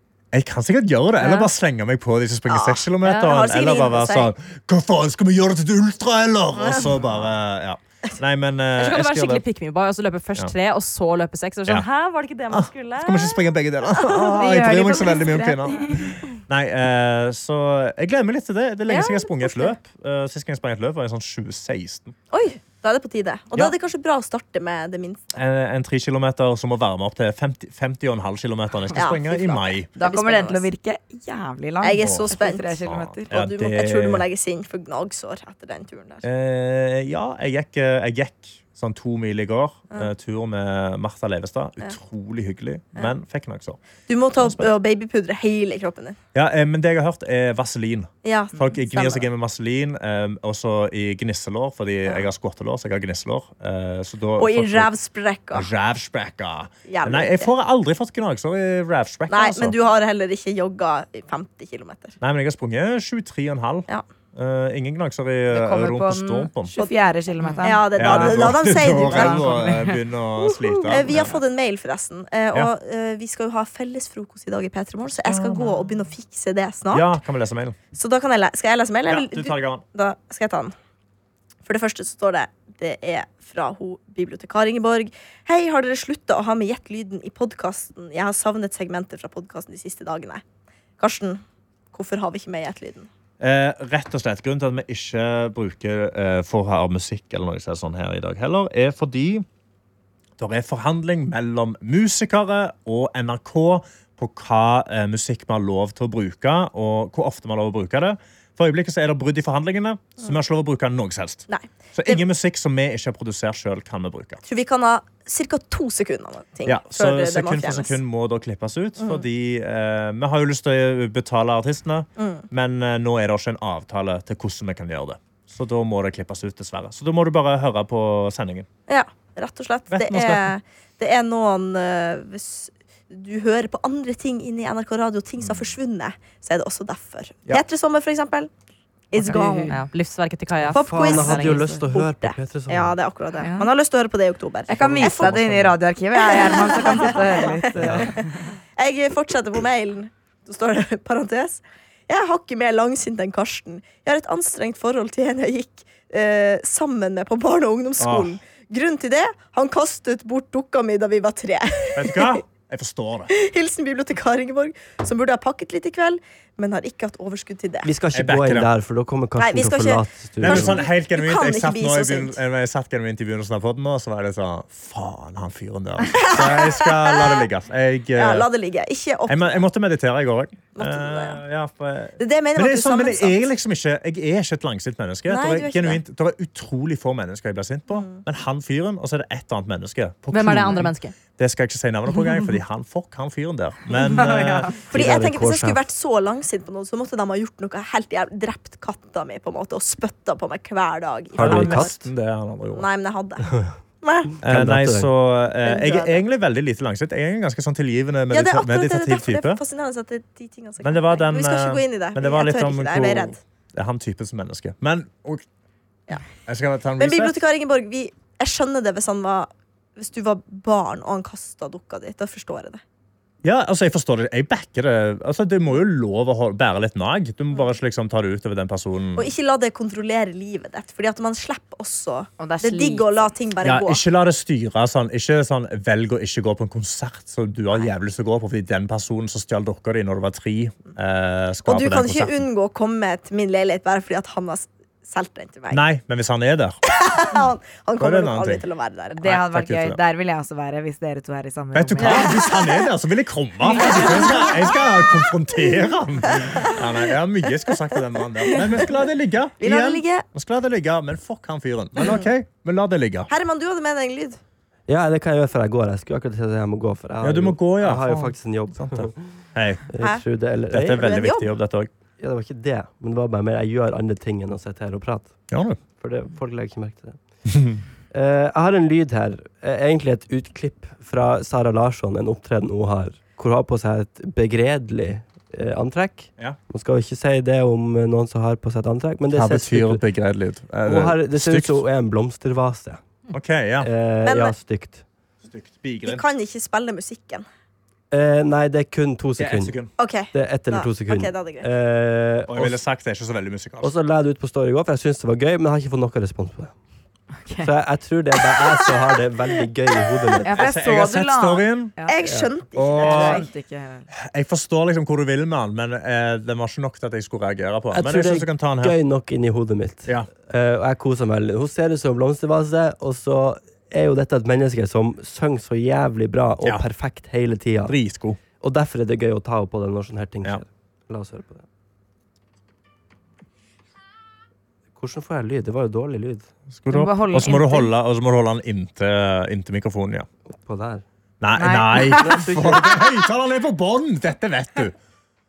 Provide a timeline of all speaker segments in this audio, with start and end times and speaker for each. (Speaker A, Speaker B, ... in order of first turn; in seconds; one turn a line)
Speaker A: 0.3-9.4
Speaker B: 1.2-1.5
Speaker C: 2.5-4.3
Speaker B: 8.8-13.4
Speaker A: 12.5-22.2
Speaker C: 14.1-14.4
Speaker D: 14.1-16.2
Speaker C: 18.9-19.8
Speaker C: 22.3-25.4
Speaker A: 25.4-29.9
Speaker C: 28.9-30.7
Speaker D: 30.0-33.3
Speaker C: 31.8-32.8
Speaker A: 32.0-34.3
Speaker C: 33.3-36.3
Speaker A: 36.2-43.8
Speaker C: 44.1-46.2
Speaker A: 44.4-44.7
Speaker A: 46.3-54.9
Speaker C: 48.2-49.3
Speaker C: 54.4-55.7
Speaker A: 55.5-59.8
Speaker C: 56.9-57.5
Speaker C: 59.3-62.2
Speaker A: 62.2-66.8
Speaker D: 65.5-70.0
Speaker C: 67.6-69.5
Speaker A: 68.0-71.4
Speaker C: 70.9-77.2
Speaker A: 75.2-75.8
Speaker A: 76.9-77.8
Speaker C: 77.9-80.7
Speaker A: 79.1-79.8
Speaker C: 81.7-90.4
Speaker C: 91.0-93.1
Speaker A: 93.4-99.5
Speaker A: 100.4-114.4
Speaker C: 111.5-112.2
Speaker C: 114.4-118.0
Speaker A: 116.7-128.7
Speaker C: 119.0-119.3
Speaker C: 122.2-122.5
Speaker C: 128.9-138.5
Speaker A: 129.9-130.5
Speaker A: 135.4-135.7
Speaker C: 139.1-139.7
Speaker D: 139.2-139.8
Speaker B: 139.7-141.7
Speaker E: 140.7-143.0
Speaker C: 140.7-145.4
Speaker D: 143.4-143.7
Speaker D: 144.7-148.5
Speaker E: 144.7-145.7
Speaker C: 146.2-148.2
Speaker E: 147.8-148.1
Speaker C: 148.8-162.4
Speaker A: 158.0-158.4
Speaker A: 161.9-163.3
Speaker C: 163.3-167.9
Speaker E: 167.8-170.8
Speaker A: 168.1-168.7
Speaker C: 169.4-172.4
Speaker A: 170.4-178.5
Speaker C: 176.1-177.5
Speaker C: 178.2-179.7
Speaker A: 179.3-194.9
Speaker C: 180.8-181.4
Speaker C: 182.2-183.5
Speaker C: 185.3-186.0
Speaker C: 187.9-188.2
Speaker B: 190.3-191.2
Speaker C: 194.0-194.3
Speaker D: 194.1-194.8
Speaker E: 194.9-195.8
Speaker C: 194.9-201.9
Speaker E: 201.4-202.1
Speaker A: 201.4-202.9
Speaker C: 202.7-204.4
Speaker A: 204.4-209.6
Speaker E: 204.4-205.1
Speaker C: 205.6-206.2
Speaker C: 208.3-213.3
Speaker A: 210.8-215.4
Speaker C: 216.1-216.3
Speaker A: 216.4-217.4
Speaker C: 217.0-222.8
Speaker A: 223.4-229.3
Speaker C: 229.2-234.1
Speaker D: 232.4-233.3
Speaker A: 233.6-242.4
Speaker C: 241.7-245.8
Speaker A: 245.7-246.8
Speaker C: 246.9-249.2
Speaker A: 248.0-248.6
Speaker D: 249.1-252.4
Speaker A: 249.2-250.0
Speaker A: 251.7-263.3
Speaker C: 252.0-252.4
Speaker D: 253.7-254.5
Speaker C: 253.8-254.5
Speaker C: 256.3-256.8
Speaker C: 258.4-259.0
Speaker C: 259.6-260.3
Speaker C: 263.3-264.4
Speaker E: 264.9-269.2
Speaker A: 267.2-269.9
Speaker E: 269.9-271.1
Speaker A: 270.7-271.9
Speaker C: 270.9-271.6
Speaker E: 272.2-275.4
Speaker A: 275.5-275.8
Speaker E: 276.0-277.2
Speaker A: 277.5-277.8
Speaker E: 278.1-290.0
Speaker A: 289.3-291.8
Speaker E: 290.9-293.0
Speaker A: 293.3-293.9
Speaker E: 293.8-295.0
Speaker C: 294.2-294.5
Speaker A: 295.5-296.2
Speaker C: 296.0-297.5
Speaker E: 298.1-299.8
Speaker A: 299.4-299.9
Speaker C: 300.0-301.7
Speaker E: 300.3-302.8
Speaker A: 302.5-303.9
Speaker E: 303.8-306.7
Speaker D: 307.4-307.7
Speaker E: 307.6-310.7
Speaker D: 310.4-312.2
Speaker A: 310.5-312.0
Speaker C: 312.1-313.5
Speaker E: 312.2-312.5
Speaker A: 312.8-313.5
Speaker D: 313.0-314.1
Speaker A: 314.3-318.9
Speaker E: 317.9-328.0
Speaker A: 327.9-328.4
Speaker E: 328.6-331.7
Speaker E: 335.0-336.5
Speaker A: 336.7-340.3
Speaker D: 336.9-337.9
Speaker E: 340.5-341.0
Speaker A: 341.4-344.9
Speaker D: 341.6-342.5
Speaker E: 342.1-343.1